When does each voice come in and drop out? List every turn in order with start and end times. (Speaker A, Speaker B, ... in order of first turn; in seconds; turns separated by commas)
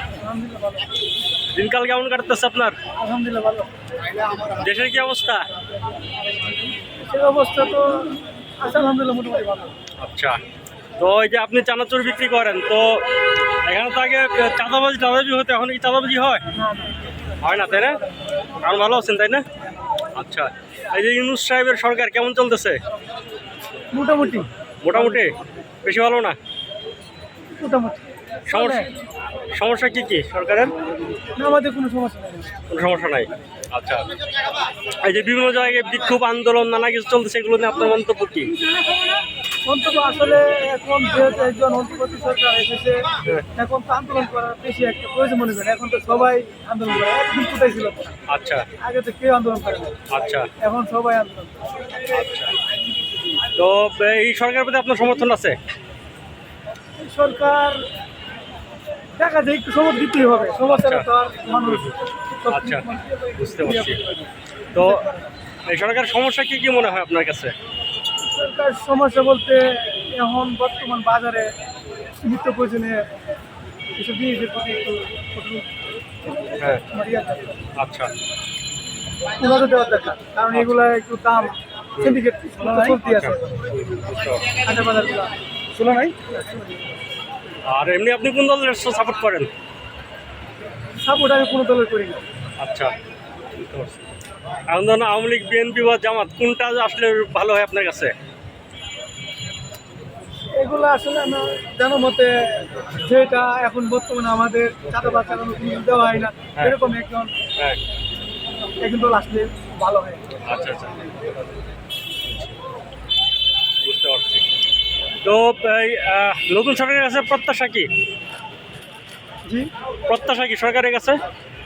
Speaker A: 0.2-0.9, Speaker B: 1.5-2.8, Speaker A: 3.0-3.7, Speaker B: 4.4-5.5, Speaker A: 7.0-9.7, Speaker B: 10.0-10.4, Speaker B: 11.0-13.0, Speaker B: 13.6-16.4, Speaker A: 16.5-17.0, Speaker B: 17.4-18.0, Speaker B: 18.6-19.4, Speaker B: 20.2-22.8, Speaker A: 23.9-25.4, Speaker B: 24.8-26.4, Speaker A: 27.6-28.9, Speaker B: 28.5-28.9, Speaker B: 29.5-30.7, Speaker A: 31.4-32.5, Speaker B: 32.7-34.1, Speaker B: 35.0-38.5, Speaker A: 39.6-48.2, Speaker B: 48.3-48.7, Speaker A: 48.8-50.0, Speaker B: 50.1-50.5, Speaker A: 50.6-51.7, Speaker B: 52.1-52.5, Speaker B: 53.5-55.6, Speaker A: 57.0-57.8, Speaker A: 59.2-65.2, Speaker B: 60.7-61.0, Speaker B: 61.6-61.9, Speaker B: 62.5-62.9, Speaker B: 63.4-64.0, Speaker B: 64.7-65.0, Speaker B: 65.7-67.5, Speaker A: 68.2-71.5, Speaker A: 72.2-73.1, Speaker A: 74.0-75.7, Speaker A: 76.9-77.6, Speaker B: 77.8-78.1, Speaker A: 79.4-83.6, Speaker B: 83.0-84.4, Speaker A: 84.6-86.7, Speaker B: 87.7-89.5, Speaker A: 91.0-92.2, Speaker B: 92.6-92.9, Speaker B: 93.6-94.0, Speaker B: 94.7-98.1, Speaker A: 100.6-107.3, Speaker A: 108.8-110.3, Speaker B: 110.5-111.1, Speaker B: 112.2-112.6, Speaker B: 113.8-114.4, Speaker B: 115.2-117.9, Speaker B: 120.0-121.2